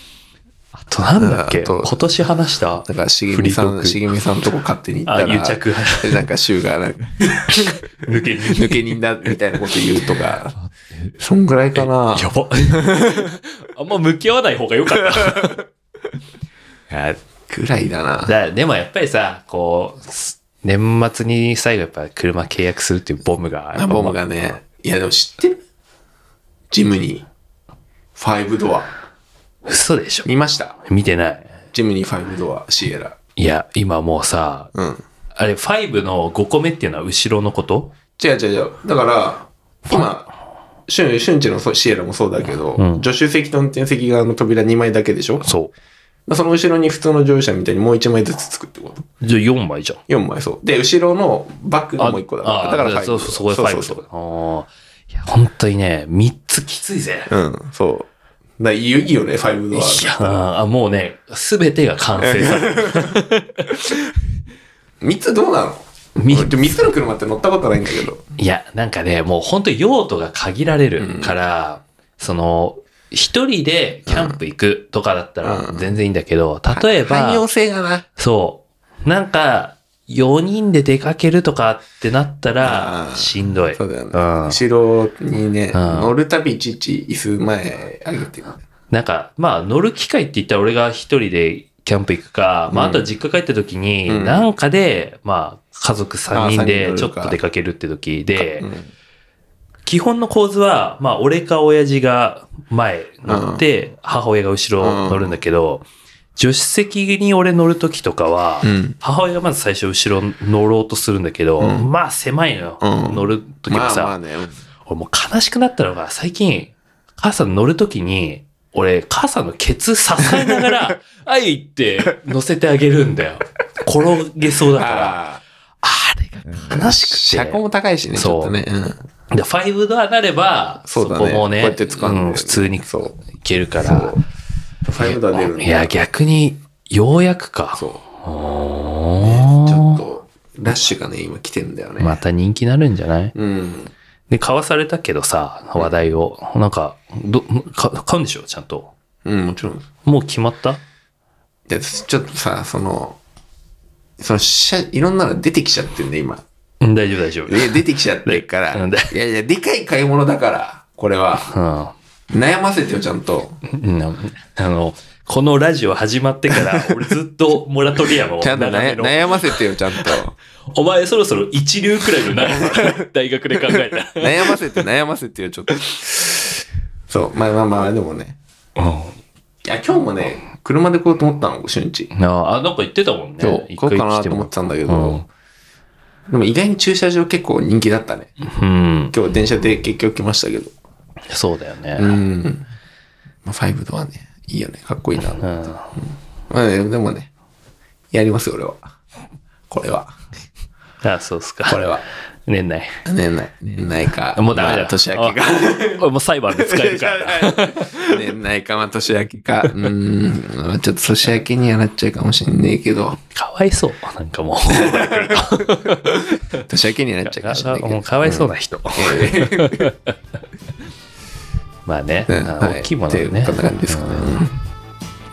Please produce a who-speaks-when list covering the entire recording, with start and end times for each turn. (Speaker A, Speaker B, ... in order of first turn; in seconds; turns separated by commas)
Speaker A: 0.8-4.0, Speaker B: 1.2-2.0, Speaker B: 2.9-7.8, Speaker A: 5.1-6.2, Speaker A: 7.5-9.0, Speaker B: 8.5-10.6, Speaker B: 11.2-13.1, Speaker A: 11.7-15.6, Speaker A: 16.9-17.2, Speaker B: 17.5-18.3, Speaker A: 18.2-24.6, Speaker B: 23.8-25.6, Speaker B: 26.7-27.3, Speaker B: 28.2-28.9, Speaker A: 29.7-30.3, Speaker B: 30.2-30.8, Speaker A: 30.9-31.5, Speaker B: 31.7-33.2, Speaker A: 33.4-34.7, Speaker B: 34.7-35.0, Speaker A: 35.4-37.9, Speaker B: 38.2-40.3, Speaker B: 40.9-45.5, Speaker A: 42.8-43.1, Speaker A: 45.4-45.7, Speaker B: 46.3-49.1, Speaker A: 49.2-50.0, Speaker B: 50.1-54.0, Speaker A: 52.0-57.3, Speaker B: 57.3-58.1, Speaker B: 58.6-60.4, Speaker A: 59.7-63.7, Speaker B: 62.2-63.2, Speaker B: 65.0-68.2, Speaker A: 66.2-66.9, Speaker A: 68.4-77.5, Speaker B: 71.0-71.4, Speaker B: 74.1-74.4, Speaker B: 75.4-76.0, Speaker B: 76.7-78.0, Speaker A: 78.2-84.6, Speaker B: 82.6-88.6, Speaker A: 85.7-86.2, Speaker A: 88.9-98.7, Speaker B: 92.7-93.1, Speaker B: 94.1-94.5, Speaker B: 96.3-97.4, Speaker B: 98.4-98.9, Speaker A: 99.9-114.2, Speaker B: 103.3-103.6, Speaker B: 104.8-105.4, Speaker B: 108.6-109.0, Speaker B: 111.6-111.9, Speaker B: 112.8-114.6, Speaker A: 114.9-125.2, Speaker B: 124.8-125.4, Speaker A: 125.8-127.6, Speaker B: 126.5-129.0, Speaker A: 128.1-128.5, Speaker A: 129.3-134.2, Speaker B: 130.8-133.2, Speaker B: 133.8-134.2, Speaker B: 134.8-136.0, Speaker A: 135.0-140.0, Speaker B: 137.7-138.0, Speaker B: 139.2-142.2, Speaker A: 142.0-143.3, Speaker B: 143.3-143.9, Speaker A: 144.3-148.9, Speaker B: 149.2-149.9, Speaker A: 150.1-150.8, Speaker B: 151.7-153.2, Speaker B: 154.2-156.4, Speaker A: 156.8-159.1, Speaker B: 157.5-161.5, Speaker A: 161.4-161.9, Speaker B: 162.3-163.6, Speaker A: 163.7-170.2, Speaker B: 166.6-166.9, Speaker B: 168.4-170.4, Speaker A: 170.7-174.6, Speaker B: 172.7-172.9, Speaker B: 174.2-176.3, Speaker A: 175.7-176.0, Speaker B: 177.1-178.4, Speaker A: 178.8-179.2, Speaker B: 179.7-182.1, Speaker A: 182.1-185.3, Speaker B: 183.4-185.2, Speaker B: 186.3-188.3, Speaker A: 188.4-189.2, Speaker B: 189.1-190.7, Speaker A: 191.3-192.2, Speaker B: 192.0-192.7, Speaker B: 193.4-197.3, Speaker A: 195.4-195.9, Speaker B: 198.1-198.9, Speaker B: 199.7-200.2, Speaker A: 201.0-201.9, Speaker B: 201.7-202.0, Speaker A: 202.5-203.0, Speaker B: 203.1-206.0, Speaker A: 204.3-208.2, Speaker B: 206.6-213.2, Speaker A: 213.3-216.7, Speaker B: 214.7-215.4, Speaker B: 216.1-219.9, Speaker A: 217.2-220.1, Speaker A: 221.9-224.4, Speaker B: 222.3-224.5